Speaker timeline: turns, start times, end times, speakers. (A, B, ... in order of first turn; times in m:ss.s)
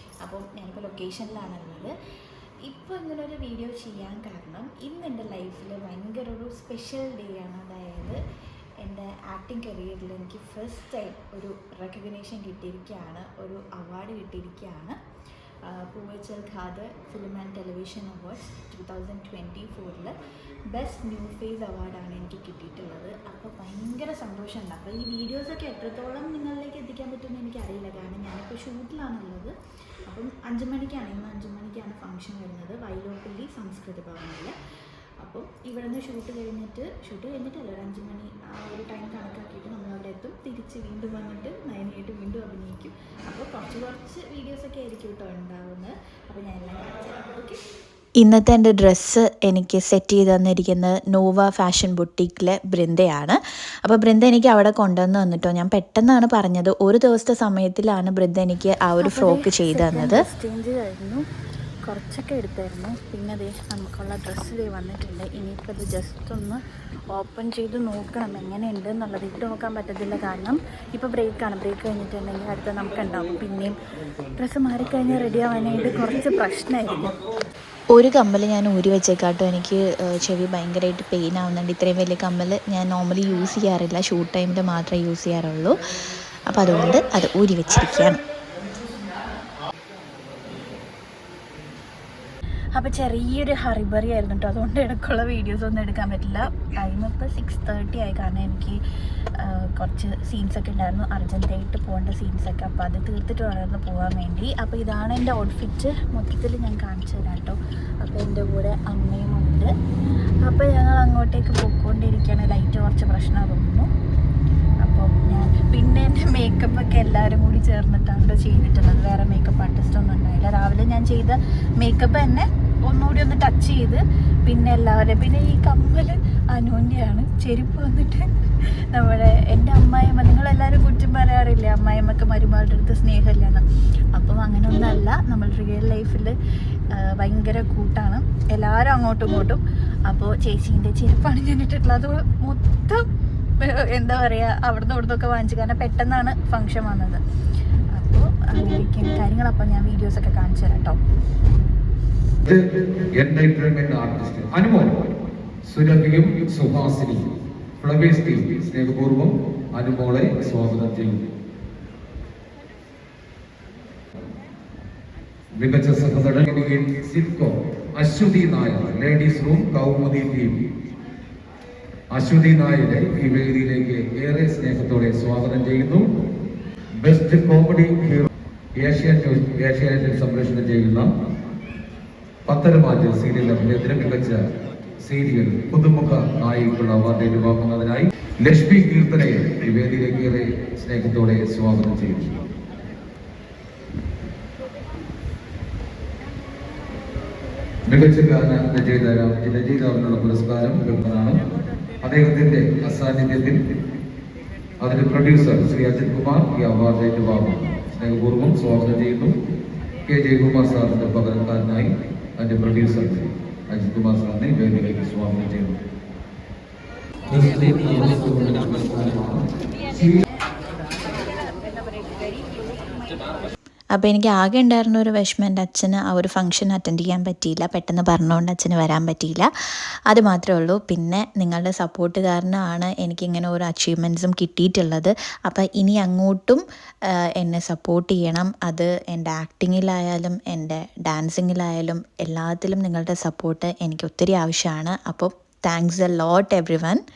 0:00.2-0:01.9 A
0:02.6-0:08.2 A
0:08.8-0:15.0 A
0:15.7-0:20.1 A
0:20.7-0:29.5 A
0:30.1-0:34.5 A
0:35.2-0:47.6 A
0:48.2-1:00.2 B
0:59.0-1:01.2 A
1:01.8-1:06.6 A
1:07.1-1:13.8 A
1:14.4-1:17.2 A
1:18.0-1:20.5 B
1:20.5-1:24.2 A
1:21.8-1:25.7 B
1:25.0-1:25.4 A
1:26.5-1:28.2 B
1:32.8-1:38.8 A
1:39.4-1:49.7 A
1:50.4-1:53.9 A
1:54.8-2:08.2 A
2:08.9-2:13.6 A
2:14.2-2:16.3 A
2:16.9-2:23.0 A
2:23.6-2:27.2 A
2:28.0-2:31.0 A
2:32.4-2:35.0 C
2:35.6-2:37.2 C
2:37.8-2:41.2 C
2:45.6-2:50.6 C
2:52.1-2:56.0 C
2:57.0-3:01.1 C
3:02.5-3:04.4 C
3:05.0-3:12.3 C
3:17.9-3:21.4 C
3:22.0-3:23.6 C
3:24.8-3:29.3 C
3:30.1-3:35.8 C
3:37.3-3:40.2 C
3:41.0-3:43.5 A
3:44.0-3:49.5 B
3:50.1-3:56.6 B
3:57.4-4:07.0 B